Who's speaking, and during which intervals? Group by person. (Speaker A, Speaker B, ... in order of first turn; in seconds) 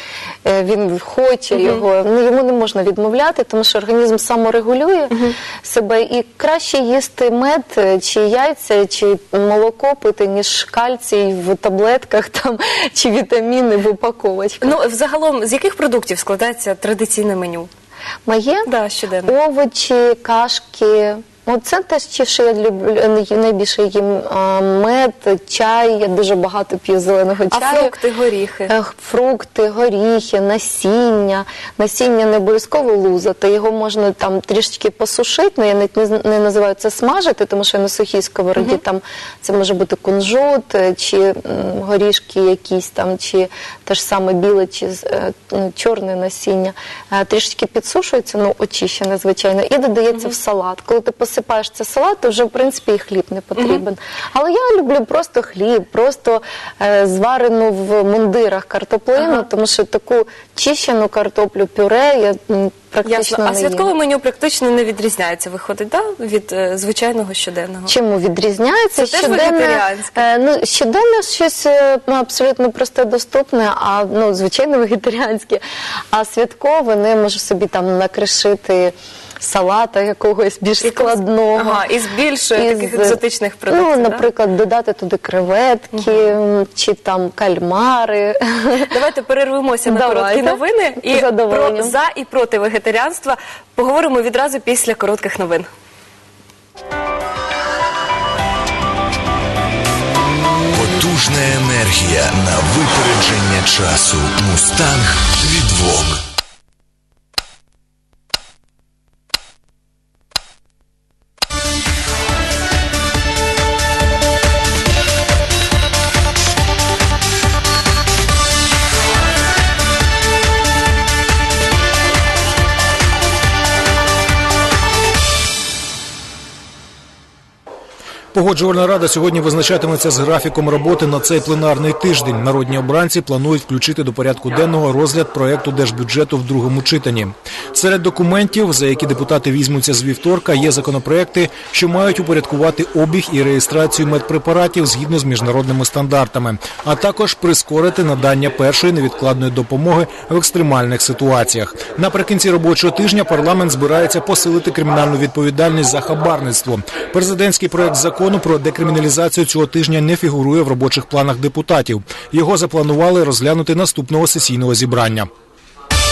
Speaker A: 0.5-14.8, 18.3-18.7, 19.3-27.9, 28.7-63.9, 67.9-75.6, 76.1-81.8, 82.6-88.9, 89.9-92.0
Speaker B: 1.6-1.8, 14.6-17.7, 18.7-19.3, 27.5-28.7, 59.2-59.5, 63.0-67.9, 69.0-70.2, 80.8-84.2, 88.9-95.7
Speaker C: 101.3-102.5, 103.5-105.7
Speaker D: 128.3-165.3